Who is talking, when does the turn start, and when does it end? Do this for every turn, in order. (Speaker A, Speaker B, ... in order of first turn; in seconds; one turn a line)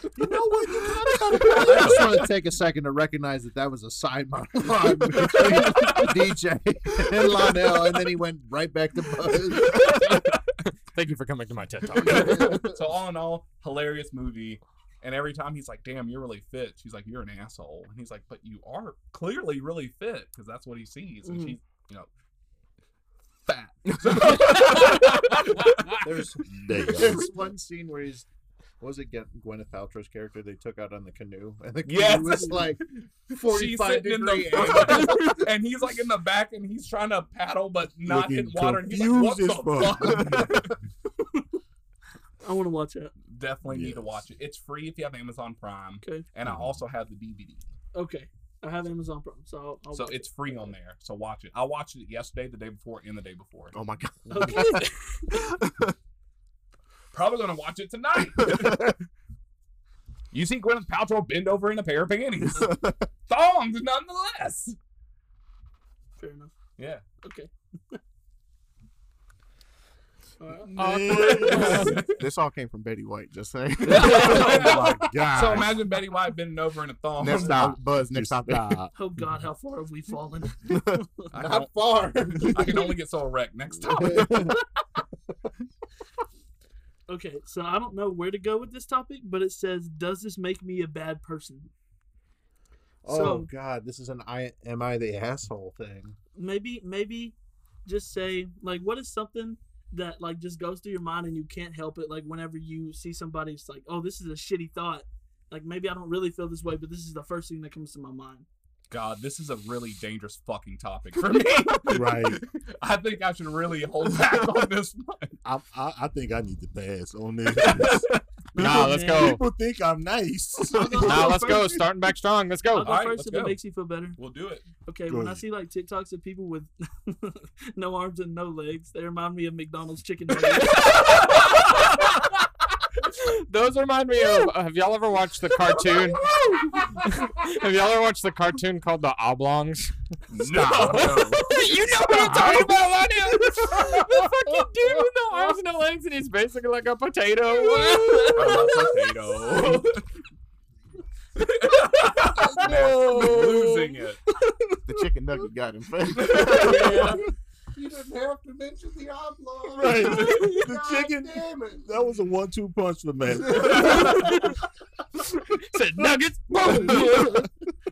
Speaker A: 0.1-2.2
Speaker B: 0.7-2.3
Speaker C: 1.4-10.0
Speaker B: 5.1-6.3
Speaker B: 9.5-10.4
Speaker D: 9.7-12.7
Speaker C: 11.9-12.8
Speaker B: 12.0-22.1
Speaker E: 21.2-21.6
Speaker B: 23.4-26.0
Speaker D: 24.3-26.0
Speaker C: 26.0-28.3
Speaker A: 26.5-27.3
Speaker C: 28.8-35.3
Speaker B: 31.9-40.7
Speaker D: 34.8-35.4
Speaker A: 38.0-40.7
Speaker E: 42.4-43.1
Speaker B: 43.3-47.7
Speaker A: 43.7-44.2
Speaker E: 46.0-46.3
Speaker A: 46.4-46.8
Speaker E: 47.9-50.7
Speaker B: 49.9-53.7
Speaker F: 53.7-55.9
Speaker E: 54.3-55.2
Speaker B: 57.1-59.0
Speaker F: 58.4-58.9
Speaker B: 60.3-64.8
Speaker F: 62.5-63.1
Speaker E: 66.2-66.5
Speaker B: 66.8-67.0
Speaker E: 67.2-68.0
Speaker E: 70.4-72.0
Speaker A: 70.7-71.9
Speaker D: 70.8-72.0
Speaker B: 71.1-72.2
Speaker F: 72.1-75.0
Speaker B: 73.8-77.7
Speaker A: 74.1-75.8
Speaker F: 77.2-78.8
Speaker A: 77.3-78.9
Speaker E: 79.0-81.3
Speaker F: 80.7-81.0
Speaker B: 81.3-84.6
Speaker C: 81.3-83.0
Speaker C: 83.8-84.6
Speaker E: 87.1-91.7
Speaker C: 93.0-96.2
Speaker E: 93.1-93.5
Speaker E: 96.4-97.3
Speaker E: 97.9-108.5
Speaker B: 108.9-115.4
Speaker A: 111.9-112.4
Speaker A: 115.4-121.8
Speaker B: 117.6-118.2
Speaker E: 118.5-119.4
Speaker D: 118.6-119.4
Speaker E: 120.7-121.8
Speaker D: 121.0-123.0
Speaker E: 122.7-124.2
Speaker B: 122.8-123.6
Speaker B: 124.2-124.7
Speaker E: 124.8-131.5
Speaker A: 125.1-125.4
Speaker B: 130.4-132.1
Speaker D: 133.0-148.8
Speaker B: 135.9-136.6
Speaker B: 140.3-142.9
Speaker E: 148.1-148.7
Speaker B: 148.3-150.0
Speaker B: 151.4-154.2
Speaker C: 152.4-153.0
Speaker D: 152.7-153.8
Speaker A: 153.1-153.5
Speaker F: 154.9-157.2
Speaker C: 156.4-157.2
Speaker E: 156.5-157.2
Speaker C: 157.7-162.1
Speaker A: 159.7-164.2
Speaker D: 160.1-160.7
Speaker C: 163.4-163.9
Speaker B: 163.5-164.3
Speaker D: 163.6-164.5
Speaker E: 164.2-164.5
Speaker D: 165.2-167.5
Speaker C: 166.8-167.0